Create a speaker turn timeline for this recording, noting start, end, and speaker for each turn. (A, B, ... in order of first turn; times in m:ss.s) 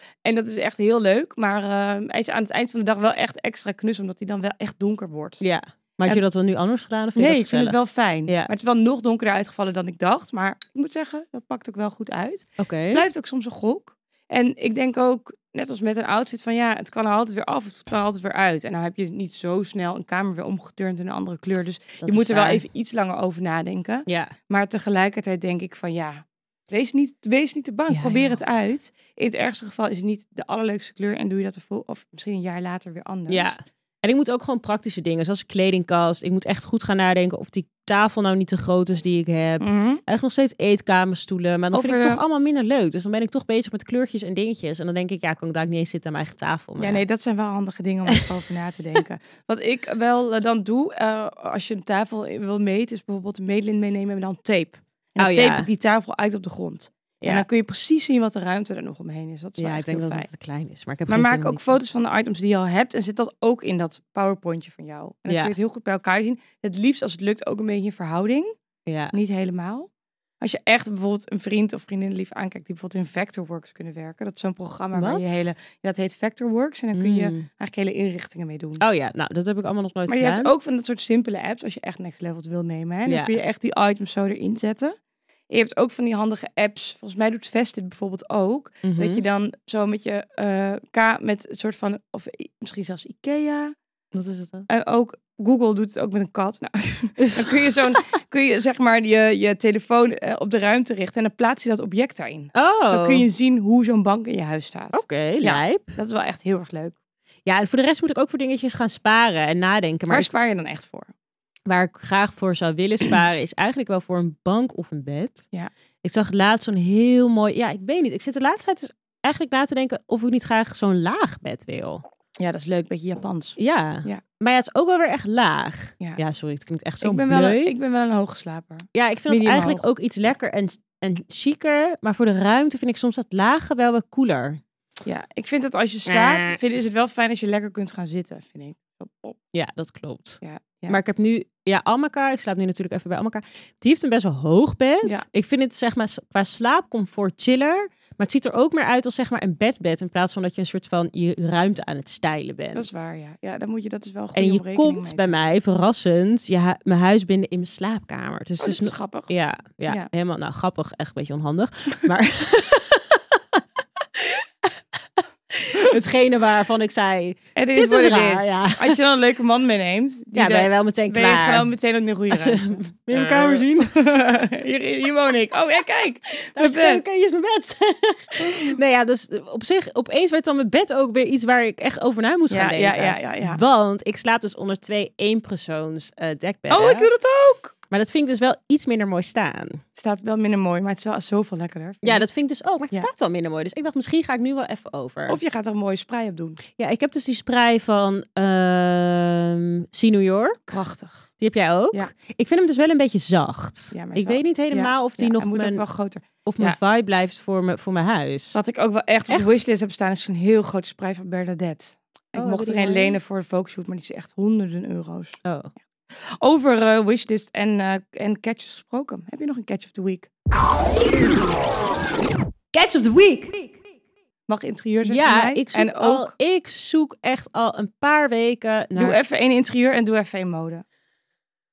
0:00.2-0:05.4 A
0:05.4-0:08.5 B
0:07.2-0:33.6 A
0:12.6-0:13.0 B
0:22.0-0:22.6 B
0:24.1-0:24.4 B
0:27.9-0:28.4 B
0:33.3-0:47.0 B
0:39.6-0:40.0 A
0:41.7-0:42.2 A
0:46.8-1:00.3 A
0:55.2-0:55.7 B
0:57.2-0:57.5 B
0:59.6-1:01.7 B
1:01.1-1:08.5 A
1:05.3-1:05.5 B
1:08.9-1:09.2 B
1:09.1-1:09.9 A
1:10.4-1:18.8 A
1:14.9-1:15.4 B
1:16.9-1:17.5 B
1:18.8-1:20.5 B
1:20.1-1:25.0 A
1:23.1-1:23.4 B
1:25.5-1:33.8 A
1:28.8-1:29.2 B
1:34.1-1:34.7 B
1:34.7-1:47.0 A
1:37.2-1:38.0 B
1:42.5-1:43.3 B
1:44.9-1:46.0 B
1:47.5-1:50.3 B
1:50.1-1:51.1 A
1:51.7-1:55.4 B
1:56.0-2:02.0 B
2:02.4-2:04.2 A
2:03.6-2:07.7 B
2:07.0-2:09.8 A
2:08.9-2:14.6 B
2:15.0-2:19.4 A
2:16.1-2:16.6 B
2:19.5-2:32.9 B
2:20.4-2:21.0 A
2:32.8-2:35.4 A
2:34.4-2:49.0 B
2:38.6-2:39.3 A
2:47.6-2:57.0 A
2:50.4-2:51.7 B
2:52.3-2:54.0 B
2:56.6-3:07.1 B
2:58.4-2:58.8 A
3:02.5-3:03.6 A
3:06.7-3:07.7 A
3:07.9-3:09.8 B
3:10.0-3:12.3 A
3:12.0-3:15.4 B
3:15.3-3:16.6 A
3:16.8-3:20.6 B
3:20.7-3:21.3 A
3:21.4-3:25.8 B
3:23.9-3:26.8 A
3:26.4-3:28.6 B
3:28.5-3:35.4 A
3:29.3-3:29.6 B
3:32.4-3:33.2 B
3:35.4-3:35.7 B
3:36.2-3:40.5 A
3:42.7-3:43.8 B
3:44.5-3:46.3 A
3:45.0-3:49.2 B
3:49.0-3:50.8 A